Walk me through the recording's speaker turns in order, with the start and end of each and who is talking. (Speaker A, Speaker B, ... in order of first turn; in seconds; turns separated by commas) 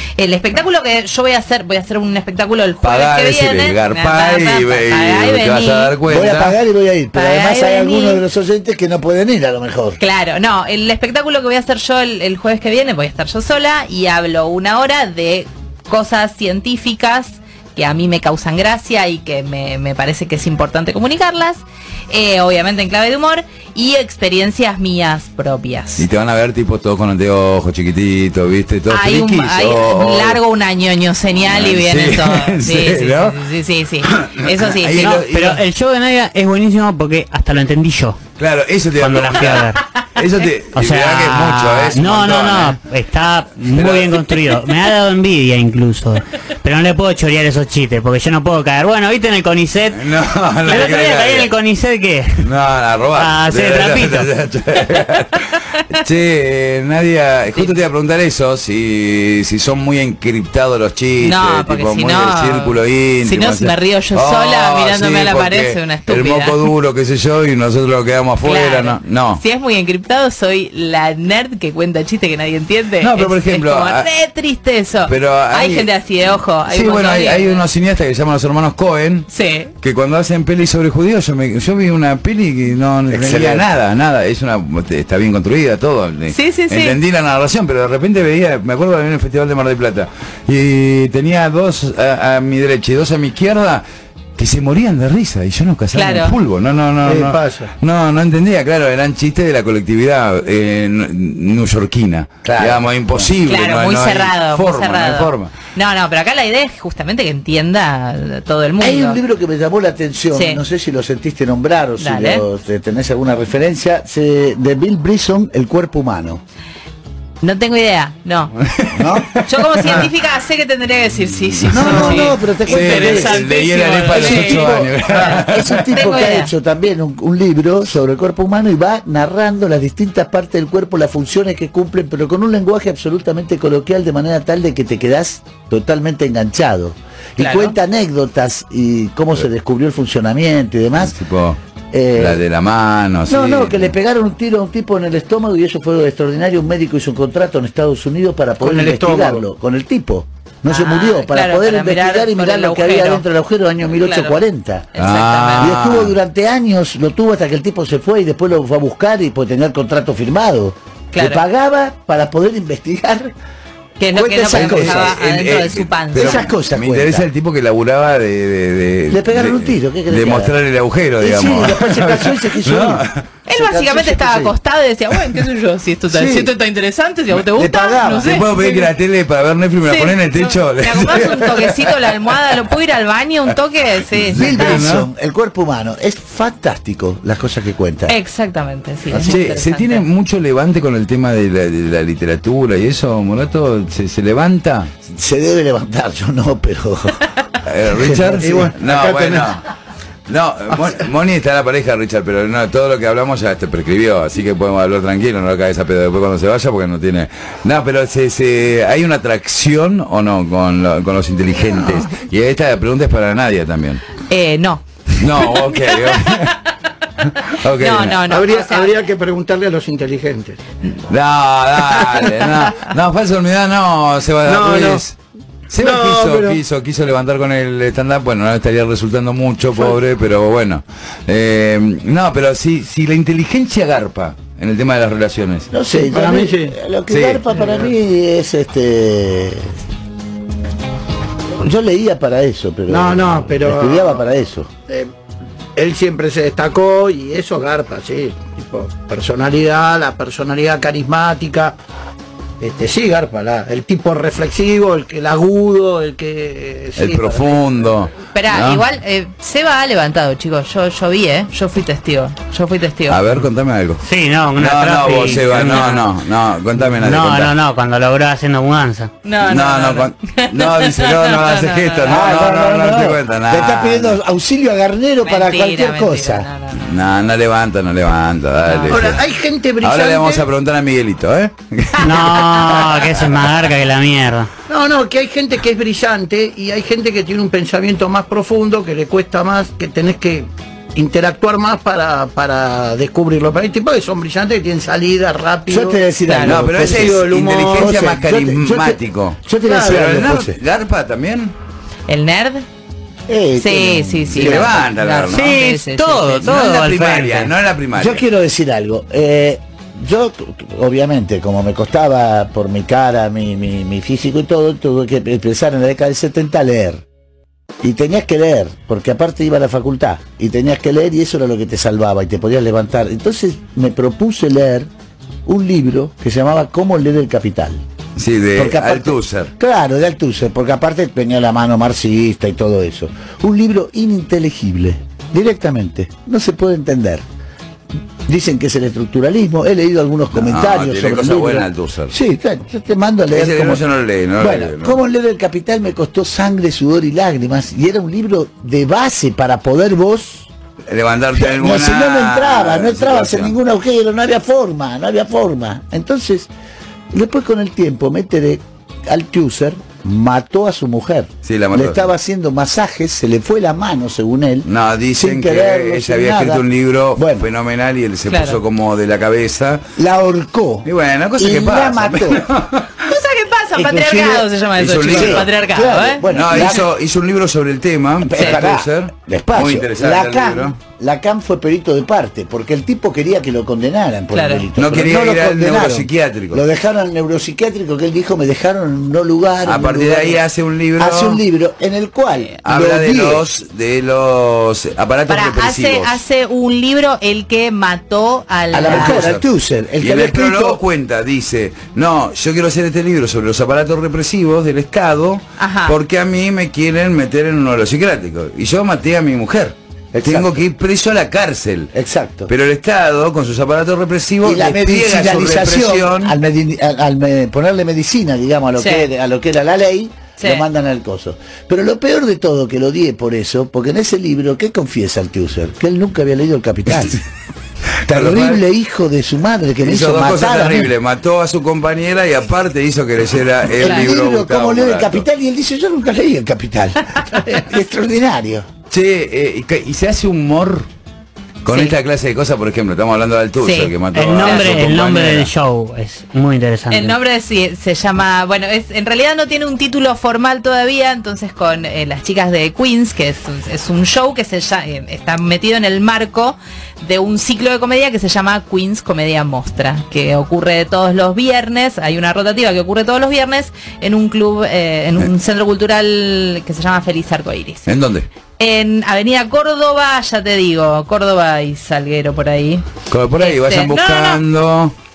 Speaker A: 0.2-5.9, Speaker B: 2.8-6.5, Speaker C: 6.1-10.0, Speaker A: 7.1-8.2, Speaker A: 10.0-26.1, Speaker B: 26.0-30.4, Speaker A: 28.9-35.2, Speaker B: 31.4-33.4, Speaker B: 34.1-35.6, Speaker D: 35.0-38.2, Speaker B: 38.4-42.8, Speaker D: 39.0-39.8, Speaker D: 40.7-50.0, Speaker B: 43.7-44.3, Speaker B: 49.9-51.5, Speaker D: 50.6-52.4, Speaker B: 52.4-69.4, Speaker D: 53.1-54.3, Speaker A: 61.2-66.7, Speaker A: 68.4-77.6, Speaker B: 73.0-74.0, Speaker B: 75.0-79.3, Speaker A: 79.3-79.7, Speaker B: 79.8-93.8, Speaker C: 83.1-83.7, Speaker A: 86.3-87.0, Speaker B: 94.4-105.5, Speaker A: 95.9-96.3, Speaker E: 97.0-97.7, Speaker C: 102.4-103.3, Speaker A: 103.5-109.2, Speaker C: 108.8-116.4, Speaker A: 110.3-110.6, Speaker A: 112.0-112.4, Speaker A: 117.4-118.5, Speaker B: 118.8-119.2, Speaker C: 119.0-120.1, Speaker A: 119.4-124.9, Speaker B: 121.5-125.9, Speaker C: 121.7-123.5, Speaker C: 124.1-141.2, Speaker A: 125.9-126.5, Speaker A: 137.4-137.7, Speaker B: 141.0-141.6, Speaker C: 141.9-142.4, Speaker B: 142.2-143.9, Speaker C: 143.3-154.9, Speaker E: 148.6-149.4, Speaker A: 150.7-153.2, Speaker A: 153.9-154.4, Speaker A: 154.9-155.8, Speaker B: 155.0-156.1, Speaker C: 155.6-163.3, Speaker A: 161.1-161.4, Speaker A: 164.0-166.5, Speaker C: 164.1-165.1, Speaker B: 164.5-173.2, Speaker C: 166.1-167.3, Speaker C: 169.1-170.5, Speaker C: 171.2-174.5, Speaker A: 173.5-178.9, Speaker C: 176.1-176.5, Speaker C: 177.5-178.3, Speaker B: 178.0-181.9, Speaker A: 179.8-184.8, Speaker B: 184.3-185.1, Speaker C: 184.3-188.1, Speaker A: 188.1-190.1, Speaker C: 189.1-189.4, Speaker B: 189.2-194.9, Speaker C: 195.1-197.2, Speaker B: 197.6-199.6, Speaker C: 197.9-198.7, Speaker E: 198.4-199.6, Speaker B: 200.3-214.0, Speaker A: 214.3-214.8, Speaker B: 215.2-216.6, Speaker A: 215.4-216.6, Speaker B: 217.4-218.2, Speaker A: 217.8-218.9, Speaker E: 218.3-220.6, Speaker B: 221.1-225.2, Speaker E: 224.4-225.0, Speaker B: 225.7-235.7, Speaker E: 225.8-226.6, Speaker C: 235.7-239.7, Speaker E: 235.9-236.8, Speaker B: 237.1-237.4, Speaker E: 237.5-237.9, Speaker C: 241.6-244.7, Speaker E: 242.9-244.2, Speaker E: 245.8-251.8, Speaker E: 252.6-257.9, Speaker B: 256.9-258.8, Speaker A: 258.3-263.2, Speaker B: 263.1-264.0, Speaker D: 264.0-266.1, Speaker B: 264.6-267.6, Speaker A: 265.7-266.0, Speaker D: 266.9-269.1, Speaker A: 269.2-272.3, Speaker B: 269.4-274.2, Speaker C: 272.1-276.5, Speaker A: 275.2-276.8, Speaker B: 276.7-279.2, Speaker A: 278.7-279.0, Speaker E: 278.9-280.4, Speaker B: 279.8-282.5, Speaker D: 282.0-284.5, Speaker E: 284.7-296.0, Speaker C: 295.7-300.6, Speaker A: 296.3-296.6, Speaker B: 296.4-301.5, Speaker E: 296.7-297.9, Speaker E: 299.7-300.0, Speaker A: 302.1-302.6, Speaker C: 303.3-304.9, Speaker A: 303.6-306.6, Speaker B: 304.3-305.6, Speaker D: 305.3-307.5, Speaker B: 306.4-308.2, Speaker C: 307.9-317.0, Speaker C: 317.8-324.9, Speaker C: 325.4-327.8, Speaker B: 328.2-329.5, Speaker C: 328.6-337.2, Speaker C: 338.2-343.8, Speaker B: 340.3-342.1, Speaker B: 343.3-345.0, Speaker C: 344.4-350.5, Speaker B: 350.9-353.5, Speaker C: 351.3-356.5, Speaker C: 357.1-366.6, Speaker B: 361.4-362.1, Speaker B: 364.6-369.9, Speaker C: 367.1-367.5, Speaker A: 368.3-368.6, Speaker C: 370.0-372.4, Speaker B: 370.8-372.9, Speaker A: 373.1-376.7, Speaker C: 373.7-374.5, Speaker B: 374.8-375.5, Speaker C: 375.0-376.9, Speaker B: 376.3-380.8, Speaker C: 378.2-390.4, Speaker A: 384.3-384.6, Speaker B: 384.8-386.6, Speaker B: 389.6-391.4, Speaker C: 391.0-393.4, Speaker B: 392.6-396.2, Speaker A: 395.3-399.3, Speaker C: 398.7-400.8, Speaker B: 398.9-399.4, Speaker B: 400.0-411.9, Speaker A: 405.6-405.9, Speaker C: 410.1-410.6, Speaker C: 411.9-412.5, Speaker B: 412.5-416.3, Speaker C: 414.4-427.2, Speaker A: 418.8-419.1, Speaker B: 428.1-428.6, Speaker C: 428.1-430.9, Speaker B: 429.8-435.2, Speaker C: 433.8-438.6, Speaker B: 438.9-440.9, Speaker B: 441.6-445.5, Speaker A: 441.7-441.9, Speaker A: 443.6-444.8, Speaker D: 444.1-447.2, Speaker A: 446.9-467.9, Speaker B: 467.9-468.3, Speaker A: 468.6-472.9, Speaker B: 473.1-474.9, Speaker A: 473.4-474.4